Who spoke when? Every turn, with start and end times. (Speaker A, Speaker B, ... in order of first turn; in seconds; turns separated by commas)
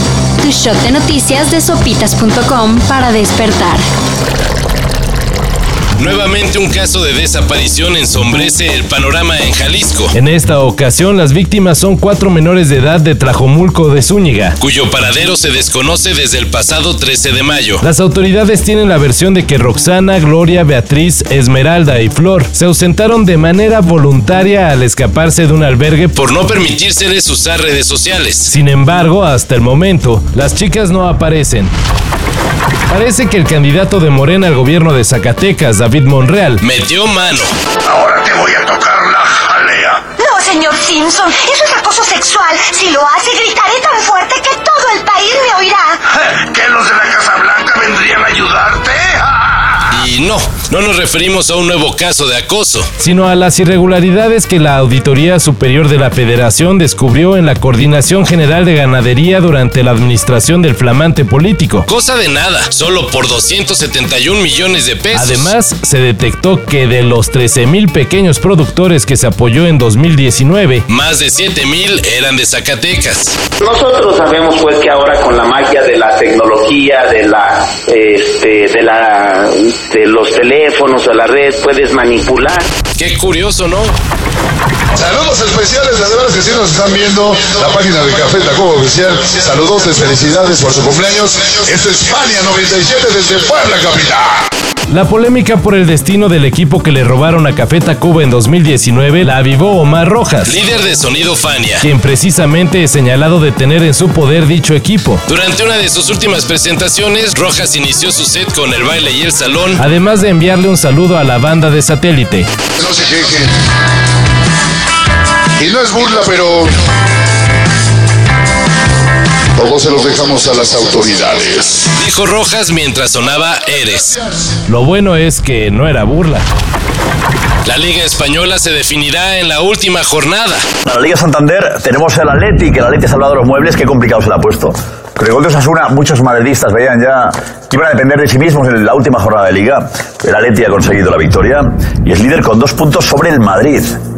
Speaker A: 0.4-3.8, Speaker B: 6.0-10.1, Speaker C: 10.1-14.6, Speaker B: 14.6-17.8, Speaker C: 17.8-26.1, Speaker B: 26.1-28.5, Speaker C: 28.5-31.7, Speaker C: 32.9-36.6, Speaker B: 36.6-37.5, Speaker D: 37.8-40.1, Speaker E: 40.2-45.9, Speaker D: 46.1-49.3, Speaker B: 49.9-52.9, Speaker C: 53.0-61.9, Speaker B: 61.9-65.5, Speaker C: 65.1-70.9, Speaker B: 70.9-73.4, Speaker F: 73.6-82.7, Speaker B: 83.0-83.9, Speaker G: 84.9-94.5, Speaker C: 94.9-100.6, Speaker B: 100.4-101.8, Speaker C: 101.8-105.2, Speaker B: 105.2-109.8, Speaker C: 109.8-112.5, Speaker G: 112.8-113.5, Speaker G: 115.6-116.7, Speaker G: 119.5-121.9, Speaker B: 122.4-124.2, Speaker C: 124.7-126.5, Speaker B: 127.6-130.6, Speaker H: 130.8-144.0